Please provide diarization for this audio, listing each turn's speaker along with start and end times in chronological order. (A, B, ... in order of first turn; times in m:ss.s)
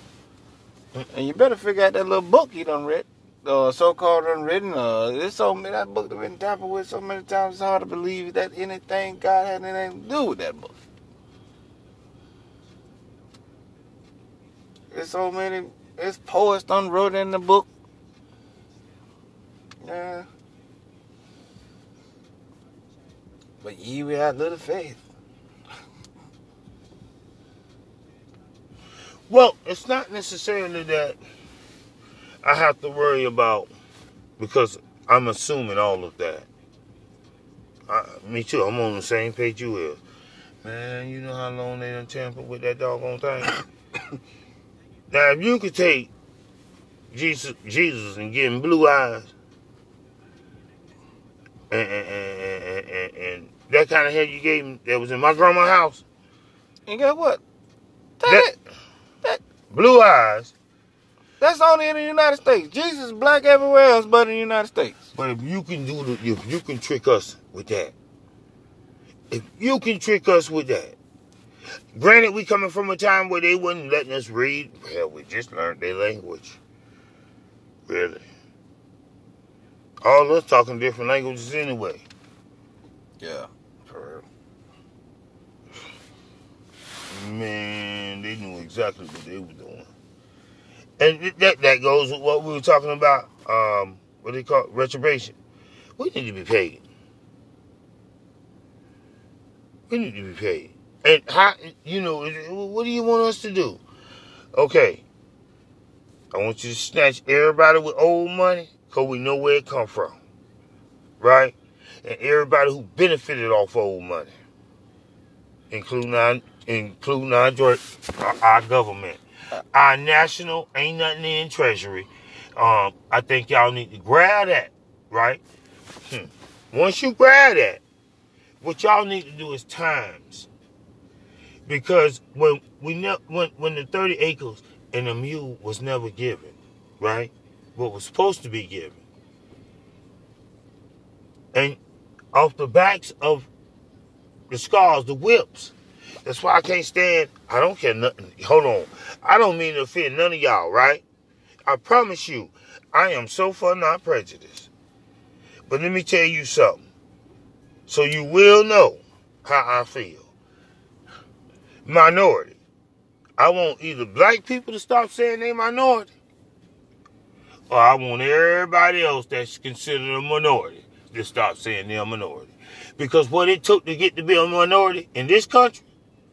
0:01.1-0:10.7 A
0:14.9-0:17.7 A
0:19.8-0:20.3 A
0:23.6-0:25.0 A
0:29.3-0:31.2 B
0:32.4-0:33.7 B
0:34.4-0:36.5 B
0:37.9-0:40.0 B
0:40.6-0:43.6 B
0:45.1-0:46.1 B
0:47.1-0:49.3 B
0:51.7-0:56.0 B
0:56.9-0:57.4 A
0:58.2-0:58.6 A
0:59.7-1:00.5 B
1:01.4-1:05.0 A
1:05.2-1:07.9 B
1:09.3-1:11.0 B
1:11.9-1:16.6 B
1:17.9-1:18.2 B
1:20.0-1:22.1 B
1:23.2-1:24.3 A
1:27.1-1:29.9 B
1:31.0-1:35.4 B
1:36.0-1:36.8 B
1:39.9-1:43.8 B
1:44.6-1:45.0 B
1:46.3-1:50.2 B
1:51.2-1:54.3 B
1:55.7-1:59.2 B
1:59.7-2:05.4 B
2:06.1-2:07.8 B
2:08.6-2:10.5 B
2:11.7-2:19.0 B
2:21.5-2:21.8 B
2:22.3-2:23.5 B
2:24.5-2:31.0 B
2:31.7-2:34.7 B
2:35.7-2:36.8 B
2:37.9-2:40.3 B
2:41.8-2:42.6 B
2:43.4-2:46.1 B
2:47.7-2:55.8 B